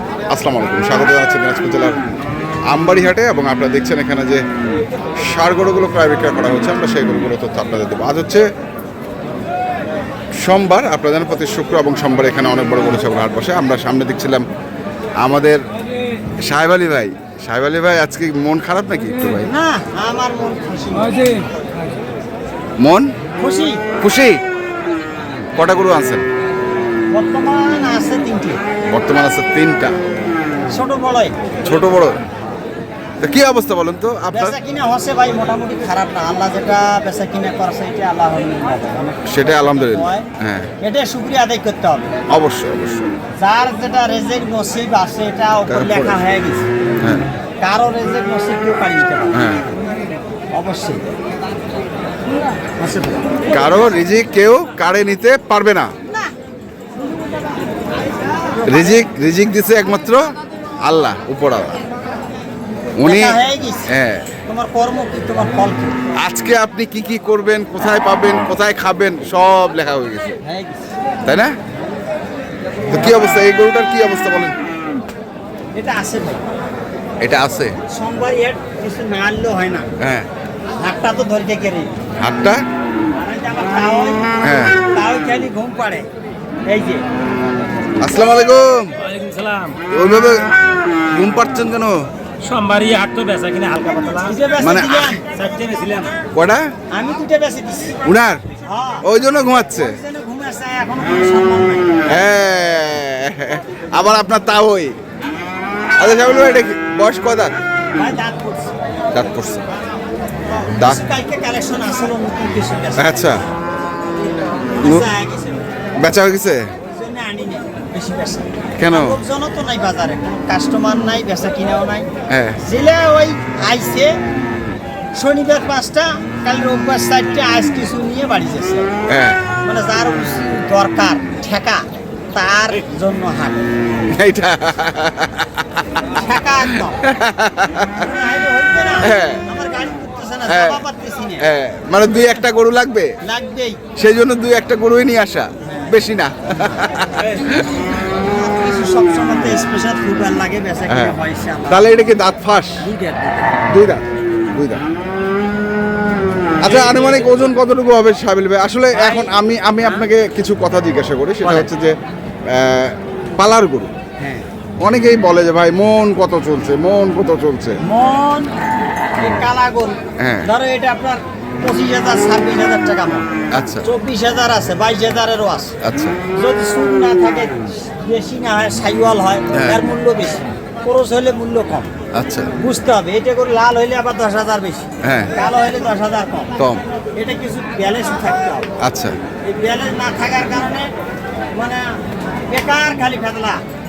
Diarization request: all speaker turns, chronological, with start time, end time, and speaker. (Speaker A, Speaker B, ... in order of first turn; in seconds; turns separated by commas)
Speaker A: 0.3-2.0, Speaker A: 2.7-4.4, Speaker A: 5.2-8.4, Speaker A: 10.4-14.4, Speaker A: 15.2-15.6, Speaker A: 16.4-19.5, Speaker B: 19.4-21.5, Speaker A: 22.8-23.1, Speaker B: 23.4-23.9, Speaker A: 24.0-24.4, Speaker A: 25.5-26.2, Speaker B: 27.1-28.6, Speaker A: 28.9-29.9, Speaker B: 30.7-31.7, Speaker A: 31.6-32.2, Speaker A: 33.2-34.5, Speaker B: 34.3-40.3, Speaker A: 39.3-40.7, Speaker B: 40.8-42.1, Speaker A: 42.3-43.1, Speaker B: 43.4-46.7, Speaker A: 45.7-46.2, Speaker A: 47.0-47.3, Speaker B: 47.6-49.5, Speaker A: 49.3-49.6, Speaker B: 50.5-51.1, Speaker B: 52.8-53.3, Speaker A: 53.5-55.9, Speaker B: 58.4-59.1, Speaker A: 58.6-61.8, Speaker A: 63.0-63.4, Speaker B: 63.0-63.9, Speaker A: 63.9-64.3, Speaker B: 64.5-66.0, Speaker A: 66.2-70.4, Speaker B: 70.4-70.9, Speaker A: 71.2-71.5, Speaker A: 72.9-74.5, Speaker B: 75.7-76.4, Speaker A: 77.2-77.7, Speaker B: 77.9-79.9, Speaker A: 80.0-80.3, Speaker B: 80.8-82.0, Speaker A: 82.2-82.6, Speaker B: 83.1-86.0, Speaker A: 84.4-84.8, Speaker B: 86.7-87.0, Speaker A: 88.0-89.0, Speaker C: 89.0-89.8, Speaker A: 89.9-90.5, Speaker A: 91.1-92.0, Speaker C: 92.4-94.4, Speaker B: 94.2-95.3, Speaker A: 94.6-95.1, Speaker C: 95.3-96.1, Speaker A: 96.3-96.7, Speaker B: 96.9-98.0, Speaker A: 98.0-98.4, Speaker B: 98.6-99.1, Speaker A: 99.0-100.0, Speaker B: 99.7-102.0, Speaker A: 102.1-105.0, Speaker A: 106.0-107.5, Speaker B: 107.9-108.8, Speaker A: 109.1-109.6, Speaker B: 110.4-113.3, Speaker A: 110.7-111.0, Speaker A: 113.0-113.4, Speaker B: 114.7-115.7, Speaker A: 114.8-115.1, Speaker A: 116.0-116.7, Speaker B: 116.8-122.1, Speaker A: 118.8-119.2, Speaker A: 122.3-122.6, Speaker B: 122.6-124.2, Speaker B: 125.1-128.9, Speaker A: 129.1-129.4, Speaker B: 129.6-133.7, Speaker A: 134.1-136.2, Speaker B: 136.1-137.0, Speaker A: 137.0-138.1, Speaker B: 137.9-141.4, Speaker A: 139.0-139.4, Speaker A: 140.5-140.8, Speaker A: 141.4-143.1, Speaker B: 143.2-143.8, Speaker A: 144.0-147.7, Speaker B: 145.6-146.0, Speaker B: 146.5-147.3, Speaker B: 148.1-151.9, Speaker A: 150.9-151.1, Speaker A: 151.7-152.8, Speaker B: 152.8-153.7, Speaker A: 153.7-154.8, Speaker B: 156.6-157.1, Speaker A: 156.6-163.9, Speaker B: 158.9-160.1, Speaker B: 161.4-161.7, Speaker B: 164.2-164.4, Speaker A: 164.8-167.8, Speaker B: 167.8-168.5, Speaker B: 169.2-173.3, Speaker A: 170.2-170.5, Speaker A: 173.5-173.8, Speaker B: 173.8-175.7, Speaker A: 175.8-176.1, Speaker B: 176.3-181.9, Speaker A: 179.5-179.8, Speaker A: 182.1-182.5, Speaker B: 182.6-186.5, Speaker A: 185.0-185.3, Speaker A: 186.6-186.8, Speaker B: 187.2-188.7, Speaker A: 188.8-189.1, Speaker B: 189.4-190.9, Speaker B: 191.6-191.8, Speaker B: 192.5-193.6